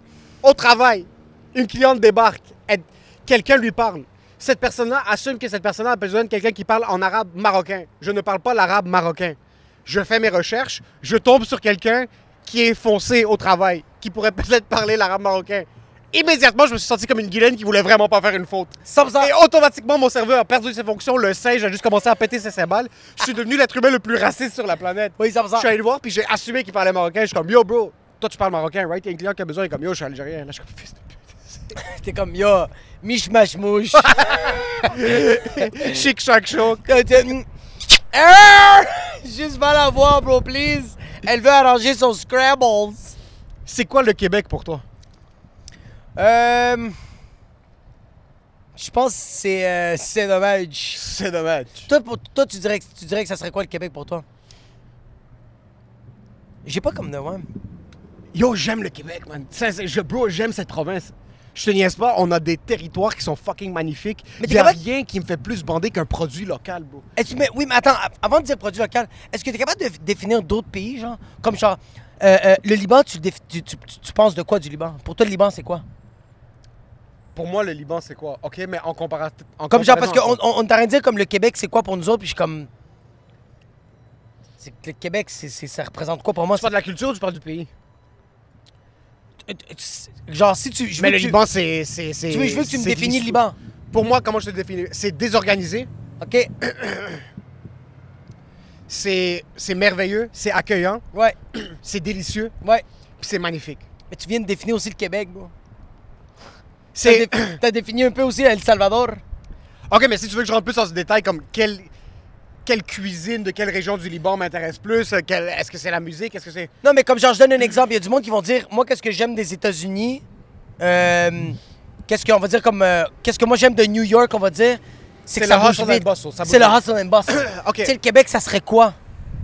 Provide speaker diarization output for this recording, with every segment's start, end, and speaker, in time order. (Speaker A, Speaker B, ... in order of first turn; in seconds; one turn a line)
Speaker A: 0.4-31.7
Speaker B: 18.9-19.3
Speaker B: 25.2-25.7
Speaker B: 31.8-36.0
Speaker A: 34.0-36.9
Speaker B: 36.8-43.1
Speaker A: 43.6-44.8
Speaker B: 46.1-47.0
Speaker B: 48.8-51.0
Speaker A: 50.9-51.9
Speaker B: 51.9-54.2
Speaker B: 56.6-57.5
Speaker A: 58.3-67.0
Speaker B: 64.4-64.8
Speaker B: 67.2-75.8
Speaker A: 77.3-80.4
Speaker B: 79.7-82.7
Speaker B: 84.6-86.7
Speaker A: 86.5-87.7
Speaker B: 89.5-91.3
Speaker A: 91.0-95.9
Speaker B: 92.3-93.6
Speaker B: 96.2-96.5
Speaker A: 96.6-97.2
Speaker A: 98.9-102.5
Speaker A: 103.2-103.8
Speaker B: 104.1-105.5
Speaker A: 106.9-107.5
Speaker B: 107.0-109.2
Speaker A: 109.9-111.9
Speaker A: 112.6-116.7
Speaker B: 116.8-120.2
Speaker B: 120.8-129.0
Speaker A: 125.3-127.9